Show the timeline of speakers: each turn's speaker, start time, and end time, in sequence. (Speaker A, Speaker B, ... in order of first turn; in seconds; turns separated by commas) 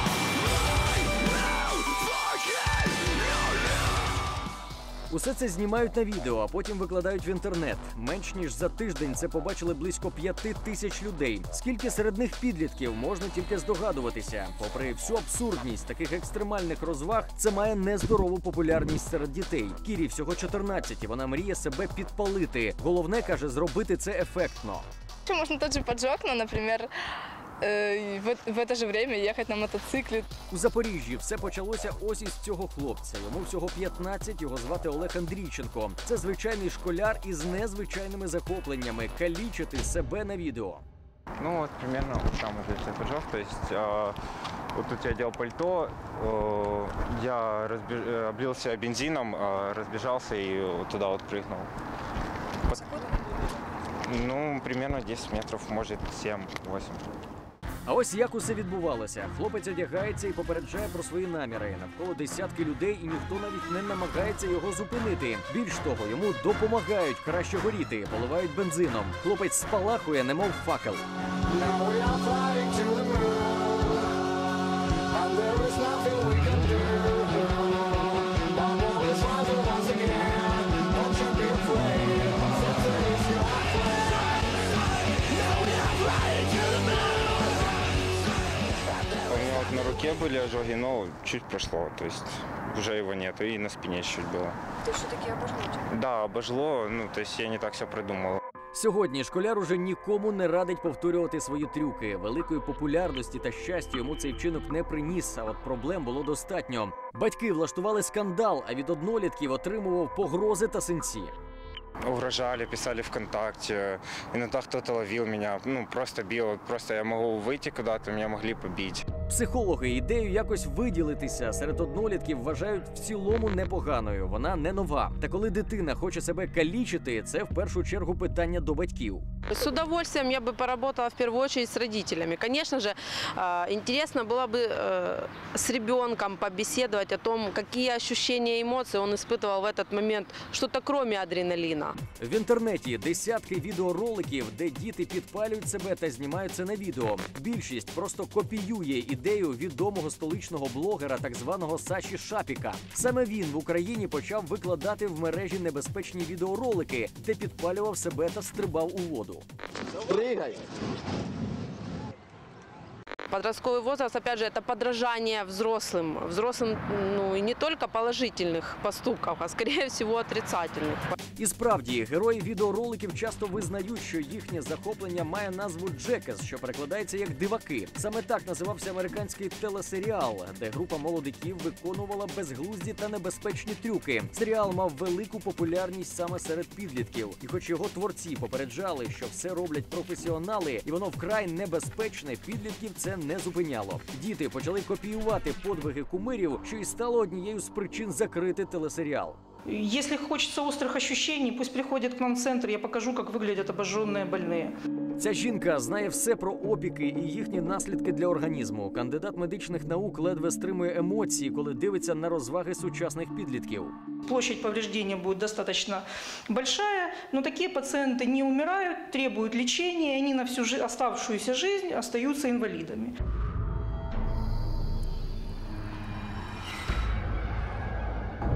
Speaker A: 5.1-24.9, Speaker B: 25.3-26.9, Speaker B: 27.6-30.3, Speaker A: 30.5-40.8, Speaker C: 41.4-44.2, Speaker C: 44.7-51.7, Speaker C: 52.7-53.0, Speaker C: 54.0-57.1, Speaker A: 57.9-71.0, Speaker D: 71.5-74.1, Speaker D: 75.1-84.2, Speaker C: 79.1-80.2, Speaker C: 89.2-94.5, Speaker C: 95.7-98.4, Speaker A: 98.7-111.3, Speaker C: 112.0-119.1, Speaker A: 119.3-129.2, Speaker E: 129.5-142.0, Speaker A: 142.2-159.4, Speaker E: 163.3-171.2, Speaker A: 171.3-199.4, Speaker F: 199.7-204.7, Speaker A: 205.2-214.0, Speaker F: 214.2-223.1